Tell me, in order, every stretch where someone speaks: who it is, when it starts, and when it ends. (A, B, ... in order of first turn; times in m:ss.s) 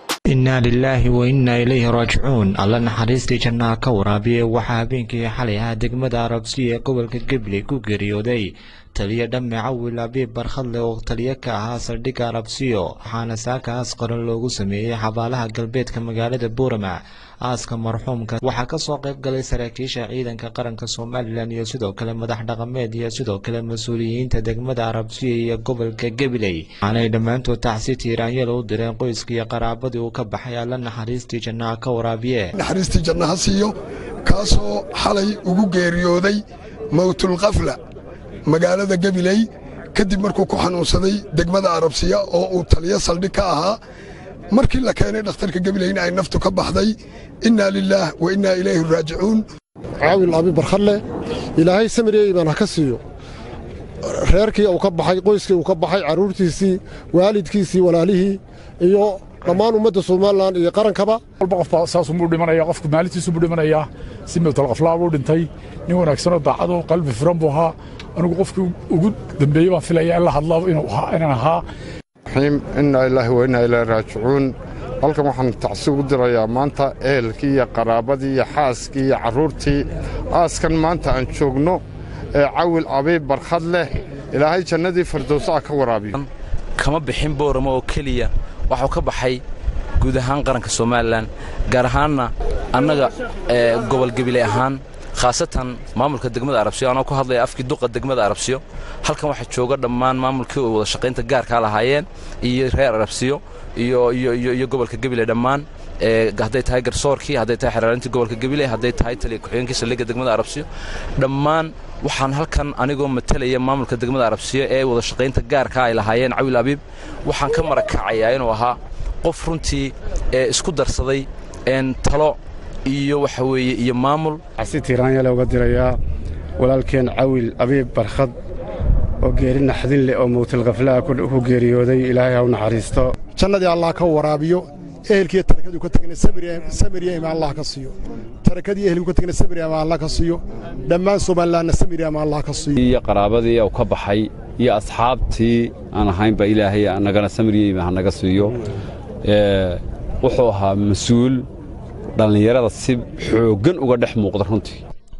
0:00.3-0:32.5 A
0:32.6-0:37.8 B
0:38.4-0:43.8 B
0:44.5-0:49.4 B
0:50.0-0:51.0 C
0:51.6-0:53.0 C
0:54.2-1:01.2 C
1:01.4-1:11.6 D
1:12.3-1:21.8 E
1:22.4-1:26.2 E
1:26.8-1:29.4 F
1:30.0-2:04.4 F
2:04.6-2:06.0 G
2:06.6-2:08.3 G
2:09.2-2:13.1 G
2:13.3-2:22.8 C
2:22.8-2:28.6 H
2:29.2-2:31.5 H
2:32.2-2:34.8 H